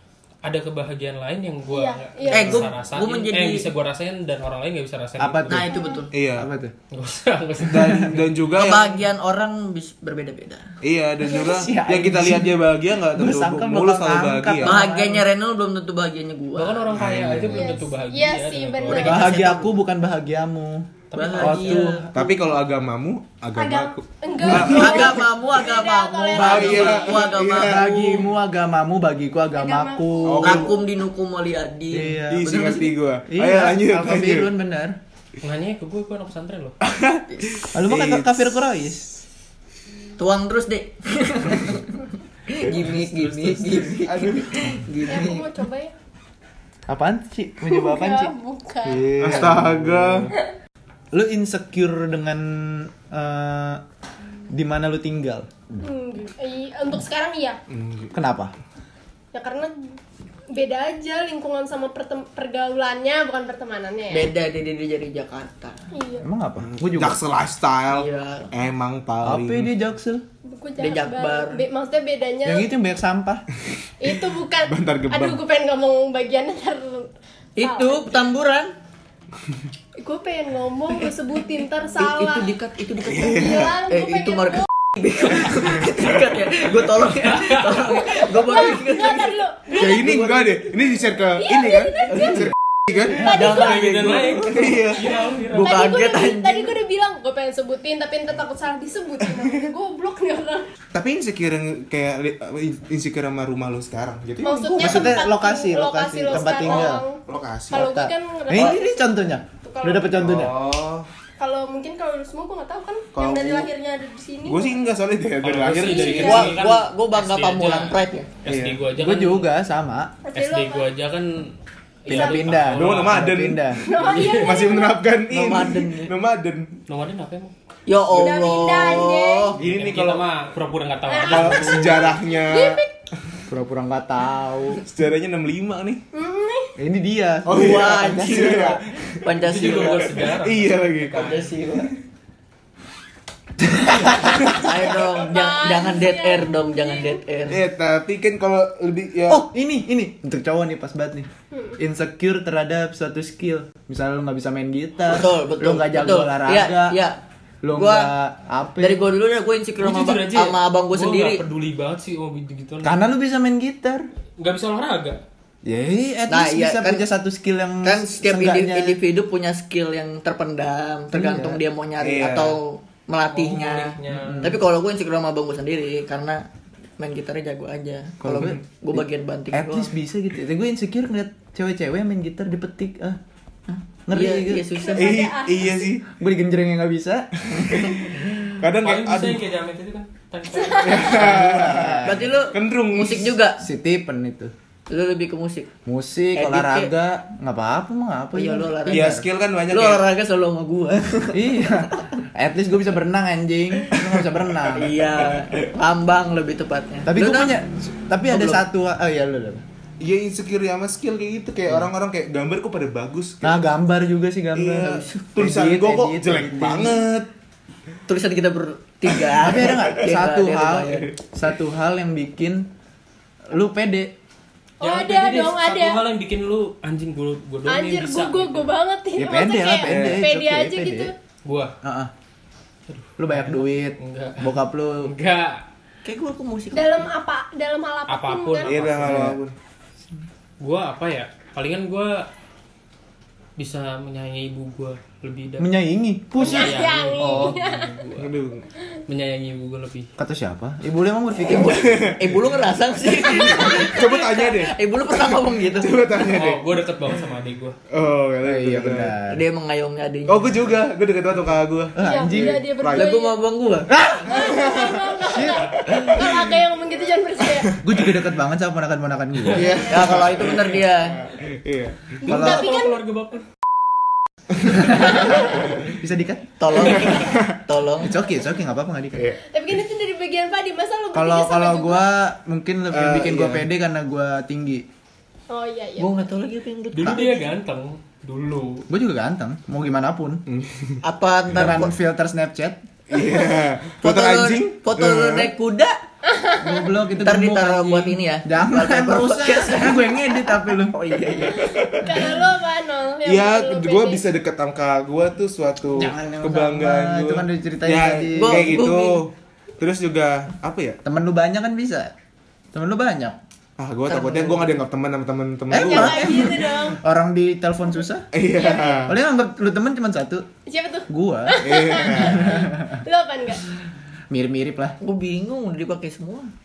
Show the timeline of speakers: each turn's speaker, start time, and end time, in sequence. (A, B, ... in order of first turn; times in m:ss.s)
0:00.4-0:05.7 A
0:01.7-0:02.7 B
0:02.3-0:03.7 C
0:05.2-0:05.7 D
0:05.5-0:06.1 C
0:05.7-0:06.0 B
0:06.1-0:06.5 E
0:06.4-0:06.7 D
0:06.9-0:08.7 A
0:07.7-0:09.0 E
0:08.6-0:10.7 C
0:10.8-0:14.8 E
0:11.2-0:11.7 B
0:11.3-0:15.2 D
0:14.6-0:16.9 C
0:16.6-0:19.3 A
0:16.9-0:17.8 E
0:17.5-0:19.4 B
0:18.9-0:19.8 C
0:19.0-0:22.2 D
0:21.1-0:22.0 A
0:21.1-0:22.1 C
0:22.1-0:25.3 E
0:23.6-0:27.4 B
0:24.4-0:28.3 C
0:26.3-0:28.2 E
0:27.5-0:30.7 D
0:29.5-0:30.6 B
0:30.2-0:30.7 E
0:30.4-0:33.0 C
0:31.9-0:35.0 D
0:32.3-0:34.5 E
0:35.4-0:36.8 A
0:36.8-0:38.5 E
0:37.7-0:39.2 D
0:40.2-0:45.5 C
0:42.7-0:44.8 E
0:45.1-0:45.9 B
0:46.9-0:48.3 D
0:47.7-0:49.1 B
0:48.9-0:50.3 D
0:49.1-0:50.3 E
0:51.1-0:53.8 D
0:54.5-0:55.5 D
0:55.8-0:57.6 B
0:57.7-0:58.1 E
0:58.1-0:58.5 D
0:59.3-0:59.7 B
1:00.5-1:04.3 B
1:04.1-1:05.8 C
1:05.9-1:06.2 B
1:06.2-1:07.2 D
1:06.7-1:09.7 E
1:07.9-1:08.5 C
1:09.2-1:10.2 D
1:10.5-1:12.7 B
1:10.8-1:11.6 C
1:12.4-1:13.4 D
1:14.0-1:18.3 B
1:14.7-1:15.4 E
1:17.6-1:18.7 C
1:20.0-1:22.6 B
1:22.0-1:29.5 C
1:23.1-1:23.8 E
1:23.2-1:24.6 B
1:27.2-1:27.8 A
1:28.1-1:30.1 B
1:29.7-1:33.5 E
1:30.1-1:30.5 C
1:31.4-1:33.9 B
1:33.2-1:36.8 C
1:33.3-1:35.8 A
1:34.4-1:35.1 E
1:35.0-1:40.7 B
1:39.2-1:39.7 E
1:40.9-1:45.3 E
1:44.4-1:49.1 B
1:44.8-1:47.0 D
1:46.3-1:47.9 E
1:47.7-1:50.6 D
1:49.6-1:50.1 B
1:50.2-1:51.1 E
1:51.4-1:54.8 B
1:53.1-1:53.7 E
1:54.5-1:56.5 E
1:55.4-1:59.5 A
1:55.8-1:56.6 B
1:56.2-1:58.3 C
1:58.5-1:58.8 E
1:58.9-2:00.1 D
2:00.3-2:00.9 B
2:00.3-2:03.3 A
2:02.1-2:03.8 D
2:02.1-2:02.6 B
2:02.7-2:06.8 E
2:03.8-2:05.0 B
2:05.3-2:06.1 C
2:06.9-2:07.5 A
2:07.9-2:09.6 C
2:08.2-2:09.5 B
2:09.5-2:10.3 E
2:09.6-2:12.2 A
2:11.1-2:12.9 B
2:11.3-2:12.8 E
2:13.5-2:14.8 D
2:14.8-2:16.0 E
2:16.1-2:16.8 B
2:16.8-2:18.8 D
2:17.5-2:20.2 C
2:17.5-2:21.2 E
2:19.3-2:21.5 A
2:21.1-2:21.9 C
2:23.6-2:24.4 D
2:24.0-2:27.6 C
2:24.4-2:27.2 B
2:27.5-2:29.5 E
2:29.3-2:37.0 D
2:31.5-2:31.8 B
2:35.1-2:37.2 C
2:37.6-2:39.0 D
2:37.7-2:38.1 C
2:38.8-2:41.4 C
2:39.8-2:43.0 A
2:42.8-2:44.0 D
2:44.4-2:45.2 A
2:45.6-2:49.0 D
2:46.3-2:47.1 C
2:47.8-2:56.5 C
2:51.1-2:51.6 D
2:52.0-2:52.6 E
2:53.3-2:54.6 A
2:54.1-2:54.6 D
2:57.0-2:59.9 C
2:58.2-3:03.2 D
3:03.7-3:05.4 C
3:04.1-3:04.7 D
3:04.8-3:05.9 B
3:04.9-3:06.0 E
3:06.1-3:08.0 D
3:07.5-3:09.5 E
3:08.8-3:11.4 A
3:10.6-3:11.0 B
3:10.7-3:13.4 E
3:11.1-3:12.2 D
3:12.0-3:13.6 C
3:13.6-3:14.5 D
3:14.9-3:15.7 C
3:15.9-3:19.3 D
3:16.4-3:16.9 C
3:18.4-3:22.1 C
3:18.9-3:20.0 E
3:21.3-3:24.9 D
3:24.8-3:27.6 C
3:27.1-3:29.6 D
3:28.3-3:28.6 C
3:30.0-3:33.6 E
3:33.4-3:37.0 D
3:34.5-3:37.3 E
3:34.8-3:35.3 C
3:38.1-3:41.1 C
3:39.4-3:42.7 D
3:43.5-3:44.2 D
3:44.8-3:46.0 B
3:44.8-3:48.7 A
3:47.7-3:51.1 B
3:49.2-3:51.1 D
3:49.9-3:50.2 E
3:51.4-3:51.7 A
3:51.8-3:52.1 D
3:52.9-3:55.6 A
3:53.2-3:55.1 D
3:56.0-3:57.1 C
3:56.7-3:58.8 B
3:58.1-3:59.3 A
3:58.6-3:59.6 E
3:59.0-3:59.4 D
4:00.6-4:02.3 A
4:03.6-4:05.7 A
4:05.6-4:07.6 D
4:06.4-4:08.3 A
4:06.4-4:08.0 B
4:08.2-4:08.7 E
4:09.1-4:10.1 A
4:10.2-4:11.9 D
4:11.5-4:16.3 C
4:11.7-4:12.6 E
4:13.2-4:14.5 B
4:13.2-4:14.8 E
4:15.3-4:16.7 E
4:16.2-4:17.8 A
4:17.9-4:19.2 E
4:18.4-4:19.4 D
4:19.3-4:20.8 C
4:20.3-4:23.1 E
4:21.9-4:22.7 D
4:22.0-4:23.4 B
4:22.9-4:24.0 C
4:23.9-4:24.5 D
4:24.2-4:27.8 B
4:24.3-4:25.2 E
4:25.3-4:25.7 D
4:25.9-4:26.5 E
4:27.5-4:27.9 E
4:27.8-4:29.9 D
4:29.5-4:32.1 E
4:29.9-4:31.2 C
4:32.2-4:33.4 A
4:32.2-4:33.0 B
4:32.3-4:32.8 D
4:34.7-4:37.0 D
4:35.4-4:35.8 E
4:36.6-4:38.2 C
4:36.8-4:37.6 E
4:38.0-4:39.4 D
4:39.2-4:39.4 E
4:39.5-4:42.1 B
4:41.1-4:44.9 D
4:42.9-4:43.7 E
4:45.5-4:46.2 B
4:46.0-4:47.5 C
4:46.9-4:48.9 A
4:48.9-4:50.4 D
4:50.5-4:51.0 E
4:51.0-4:51.9 C
4:51.5-4:52.8 D
4:53.1-4:55.5 E
4:54.0-4:56.0 C
4:56.4-4:56.8 B
4:56.6-5:01.0 D
4:57.2-5:01.7 C
5:01.5-5:04.2 B
5:01.7-5:02.4 E
5:03.2-5:11.0 E
5:06.0-5:08.8 D
5:08.3-5:09.2 C
5:11.0-5:12.1 D
5:12.7-5:13.4 D
5:13.8-5:16.8 E
5:14.1-5:14.8 C
5:15.7-5:18.3 D
5:15.7-5:17.0 B
5:18.3-5:19.2 E
5:18.5-5:19.1 B
5:19.1-5:20.5 D
5:20.7-5:23.6 B
5:21.1-5:23.0 D
5:21.6-5:22.7 E
5:24.3-5:25.0 D
5:25.0-5:26.5 C